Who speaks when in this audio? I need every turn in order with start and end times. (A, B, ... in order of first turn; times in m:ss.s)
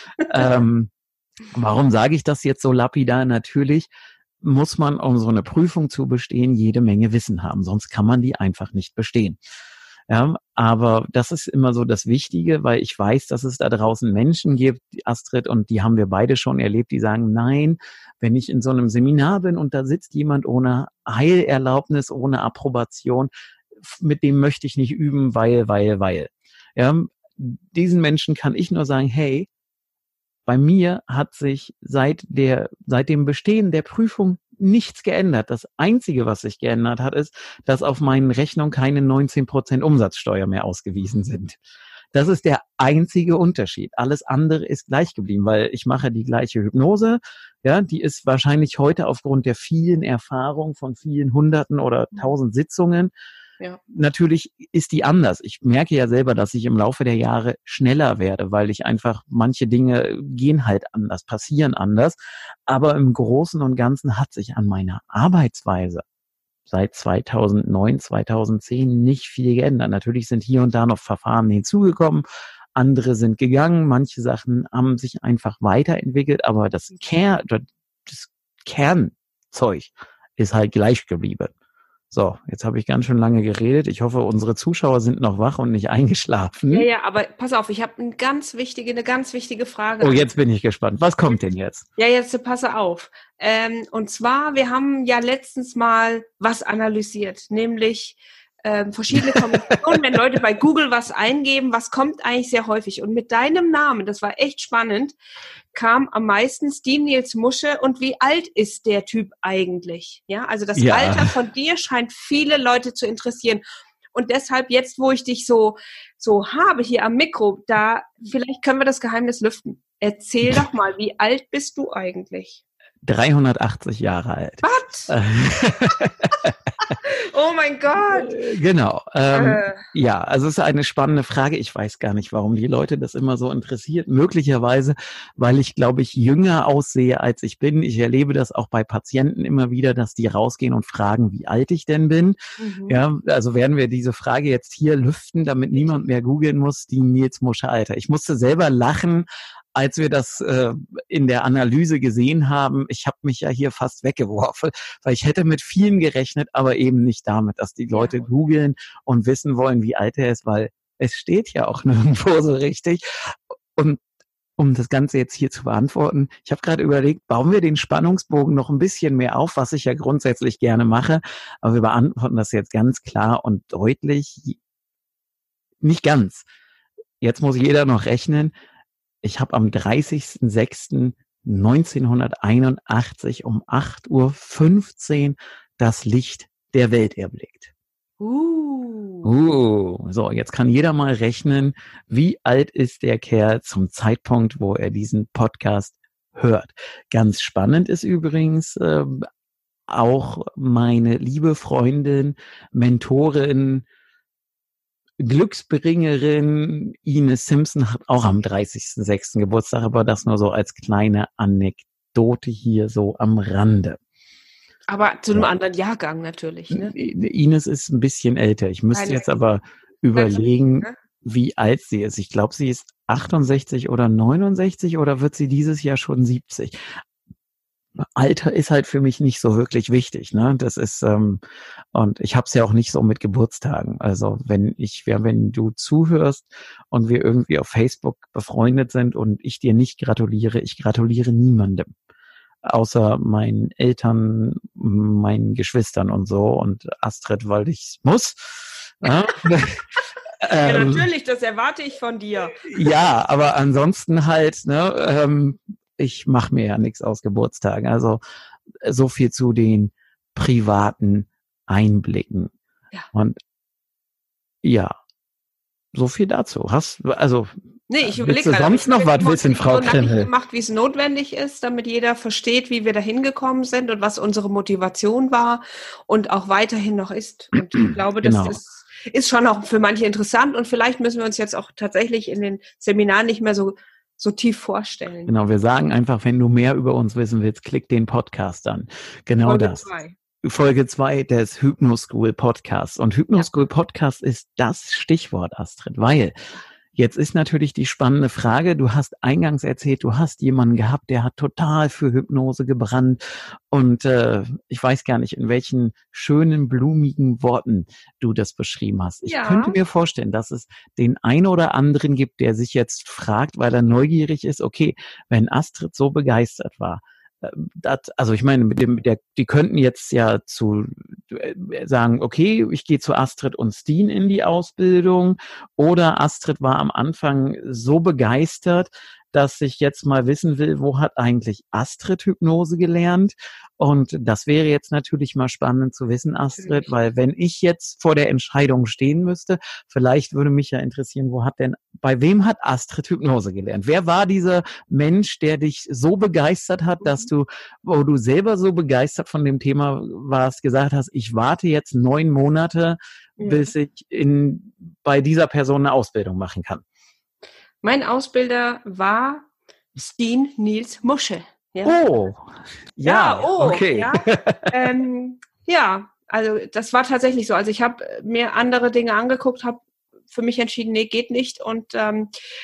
0:00.2-0:00.9 A
0:01.5-0:03.9 A
0:04.4-0:09.4 A
0:10.1-0:29.5 A
0:30.4-0:41.6 A
0:42.1-0:53.1 A
0:53.9-1:02.2 A
1:02.7-1:06.0 A
1:06.7-1:21.5 A
1:22.1-1:26.9 A
1:26.7-1:30.2 B
1:30.0-1:31.8 A
1:32.0-1:45.2 B
1:39.1-1:39.8 A
1:45.7-1:53.6 B
1:50.7-1:51.3 A
1:54.1-2:02.6 B
2:03.0-2:06.9 A
2:04.6-2:05.1 B
2:07.0-2:08.3 B
2:08.0-2:44.0 A
2:09.3-2:09.8 B
2:22.6-2:23.0 B
2:37.9-2:38.3 B
2:44.6-2:54.6 A
2:55.8-2:56.5 A
2:57.2-2:58.5 A
2:59.2-3:07.7 A
3:08.2-3:09.3 B
3:09.2-3:19.3 A
3:19.9-3:23.8 A
3:25.2-3:34.0 A
3:34.9-3:36.9 B
3:36.7-3:46.8 A
3:38.9-3:39.2 B
3:40.1-3:40.9 B
3:48.0-3:51.4 A
3:51.9-4:01.9 A
4:02.6-4:09.8 A
4:10.4-4:11.0 A
4:10.6-4:12.7 B
4:12.5-4:18.2 A
4:18.8-4:22.5 A
4:23.1-4:23.4 A
4:24.6-4:24.9 A
4:25.9-4:30.3 A
4:27.9-4:45.3 B
4:38.2-4:38.6 A
4:45.2-4:49.8 A
4:49.4-4:50.1 B
4:50.4-4:56.3 A
4:56.9-5:56.8 A
5:09.2-5:09.8 B
5:36.6-5:36.9 B
5:47.0-5:47.3 B
5:53.4-5:53.7 B
5:57.8-6:02.0 B
6:01.8-6:04.9 A
6:03.0-6:12.3 B